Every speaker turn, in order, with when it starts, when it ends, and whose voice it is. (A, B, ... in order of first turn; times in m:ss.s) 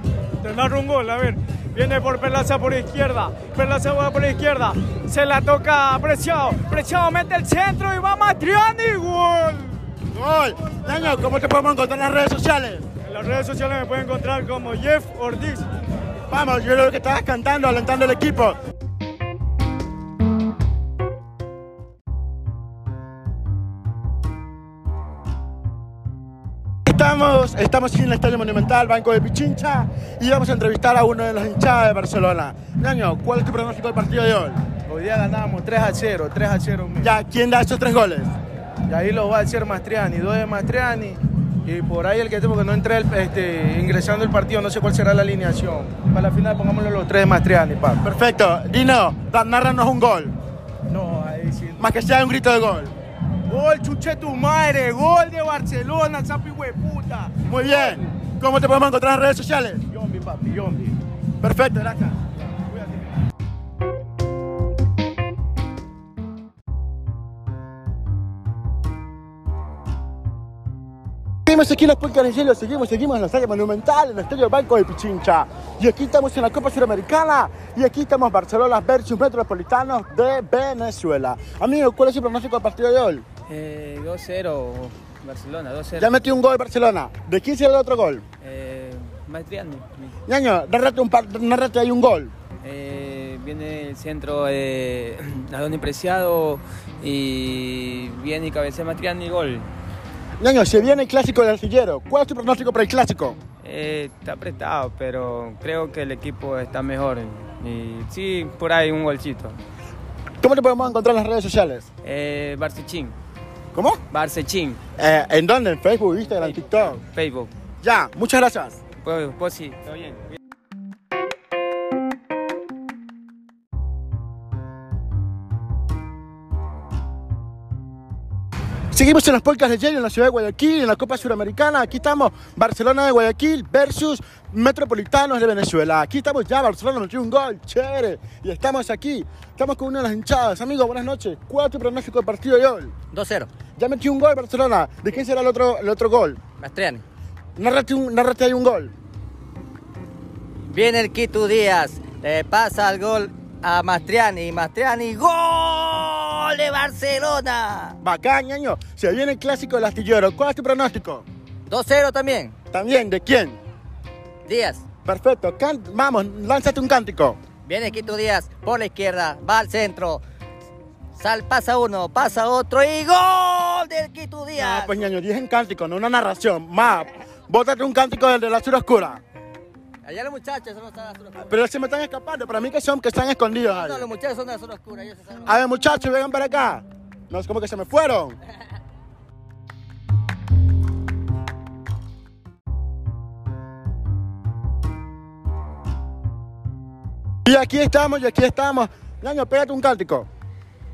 0:00.4-0:09.8 A
0:10.1-0:12.9 B
0:13.1-0:15.7 A
0:16.3-0:18.6 B
0:26.9-0:34.6 B
0:34.9-0:37.1 C
0:37.0-0:38.3 B
0:38.9-0:48.0 C
0:48.0-0:50.3 B
0:50.9-0:51.9 C
0:51.8-0:52.9 B
0:53.5-0:57.9 C
0:57.4-0:59.9 B
0:59.9-1:01.0 C
1:01.4-1:02.2 B
1:11.4-1:23.2 B
1:23.5-1:26.2 D
1:26.0-1:28.2 B
1:28.4-1:30.1 D
1:30.3-1:32.3 B
1:32.6-1:39.7 D
1:40.4-1:43.4 B
1:43.6-1:49.6 D
1:50.4-1:51.9 B
1:52.0-1:53.1 D
1:53.7-1:54.0 B
1:54.1-1:54.8 D
1:55.0-1:57.0 B
1:56.4-1:57.5 D
1:57.8-1:58.8 B
1:59.0-2:00.2 D
2:08.9-2:22.9 B
2:23.1-2:23.5 E
2:23.8-2:26.4 B
2:26.6-2:27.0 E
2:27.6-2:28.9 B
2:30.7-2:37.9 E
2:38.0-2:41.3 B
2:41.7-2:42.5 E
2:42.7-2:43.6 B
2:44.5-2:44.8 E
2:45.0-2:47.4 B
2:47.7-2:50.2 E
2:51.2-2:54.9 E
2:54.6-2:59.2 B
3:00.1-3:01.4 E
3:01.4-3:04.1 B
3:03.7-3:05.4 E
3:05.4-3:08.4 B
3:17.4-3:20.3 B